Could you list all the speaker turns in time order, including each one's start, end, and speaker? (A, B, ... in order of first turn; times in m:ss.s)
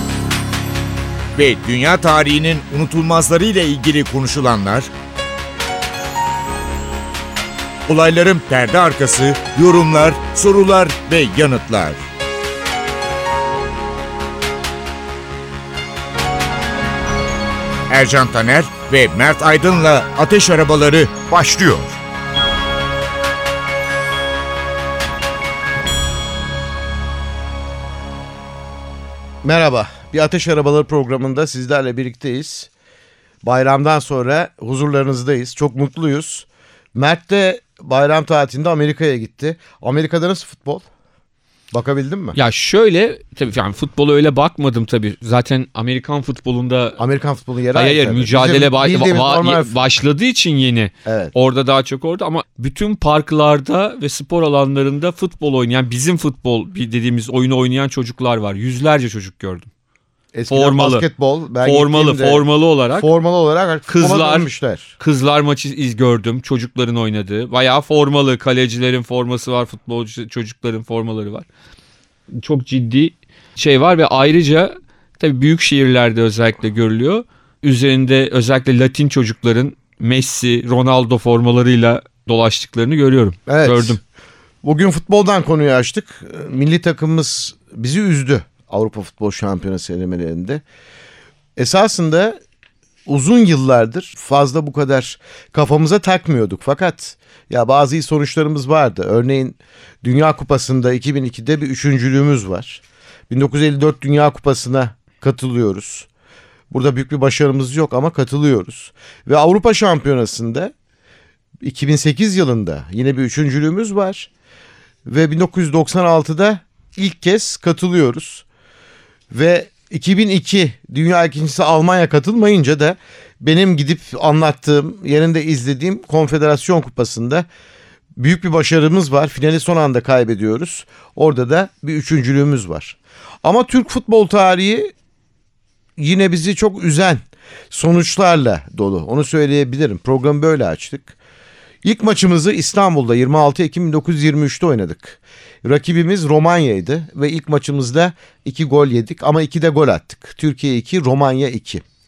0:01.4-0:04.9 A
0:07.9-0:12.0 A
0:17.9-0:22.0 A
0:29.4-0:32.7 B
0:33.4-0:40.9 B
0:41.7-0:42.4 B
0:42.4-0:47.0 C
0:47.0-0:49.8 B
0:47.7-0:59.7 C
0:51.0-0:51.3 B
1:00.3-1:04.9 B
1:00.5-1:01.1 C
1:01.6-1:03.1 C
1:03.9-1:11.5 C
1:12.3-1:24.0 C
1:23.5-1:24.0 B
1:24.6-1:30.6 B
1:31.6-1:32.4 B
1:33.1-1:46.1 B
1:46.7-1:50.7 B
1:51.6-1:54.3 B
1:55.1-1:58.4 B
1:59.3-2:07.5 B
2:08.2-2:14.9 B
2:16.0-2:21.2 B
2:21.8-2:31.8 B